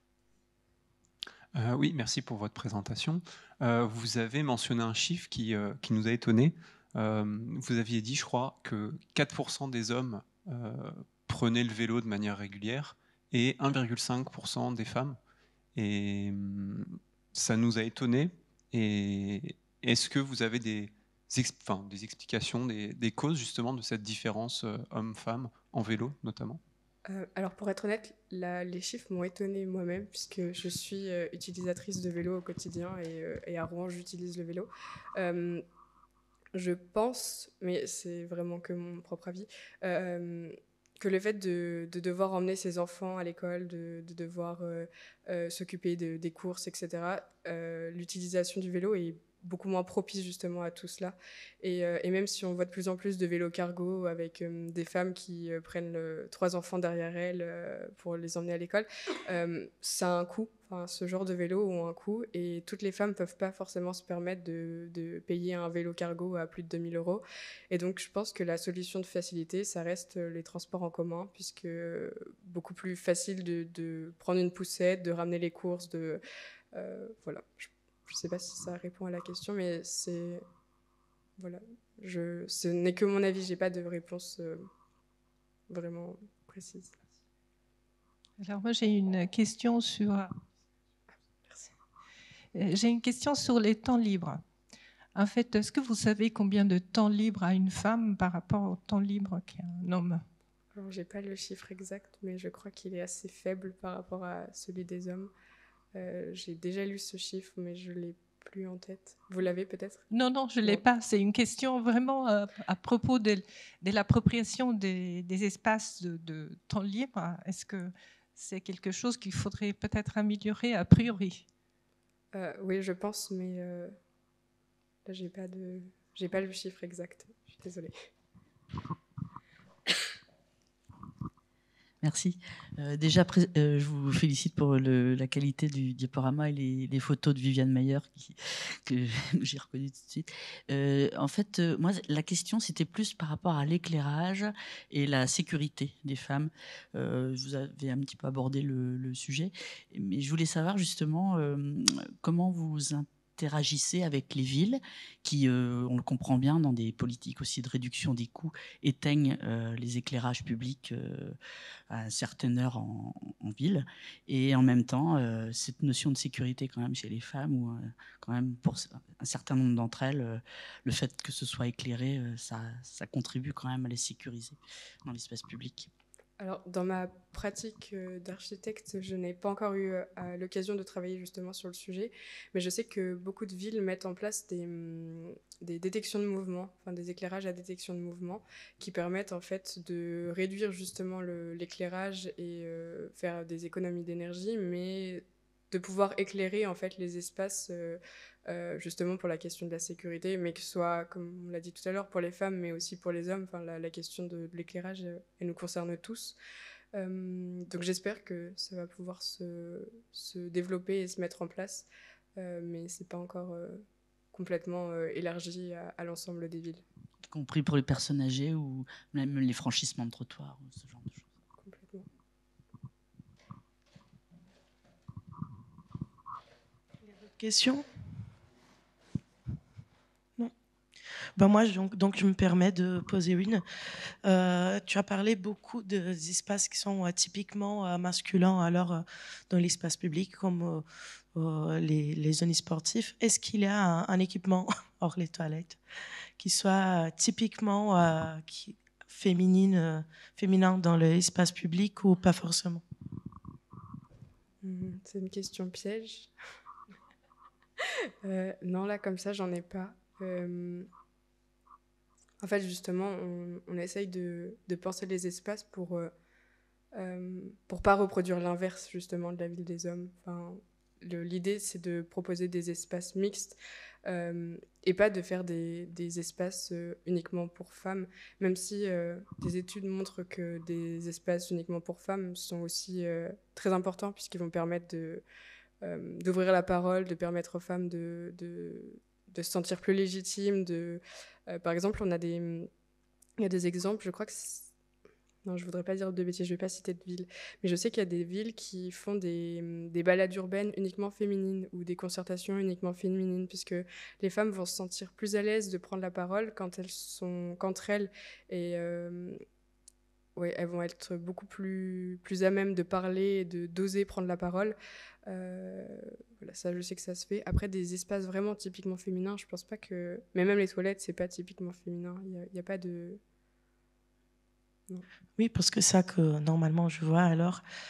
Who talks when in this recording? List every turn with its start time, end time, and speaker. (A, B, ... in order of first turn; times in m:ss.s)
0:01.5-0:15.2 A
0:15.7-0:26.6 A
0:27.0-0:35.6 B
0:36.5-1:16.2 B
1:16.7-1:20.4 B
1:21.4-1:24.7 B
1:25.7-1:26.9 B
1:28.4-1:30.3 C
1:32.5-1:34.4 C
1:35.2-1:40.2 C
1:40.7-1:45.3 B
1:45.9-1:50.1 B
1:50.1-2:01.4 C
2:02.3-2:03.9 B
2:05.0-2:07.9 B
2:12.0-2:41.4 D
2:41.9-2:55.9 D
2:56.4-3:26.4 B
3:26.9-3:36.8 B
3:37.3-3:41.3 D
3:41.6-3:42.1 B
3:47.1-3:47.8 E
3:51.4-3:53.6 E
3:54.2-4:05.8 E
4:06.4-4:12.8 E
4:14.6-4:16.3 B
4:18.2-4:20.9 B
4:22.4-4:26.1 B
4:26.9-4:45.2 B
4:45.8-4:52.7 B
4:53.4-4:54.7 B
4:55.4-5:09.4 B
5:10.4-5:23.2 B
5:25.4-5:27.6 E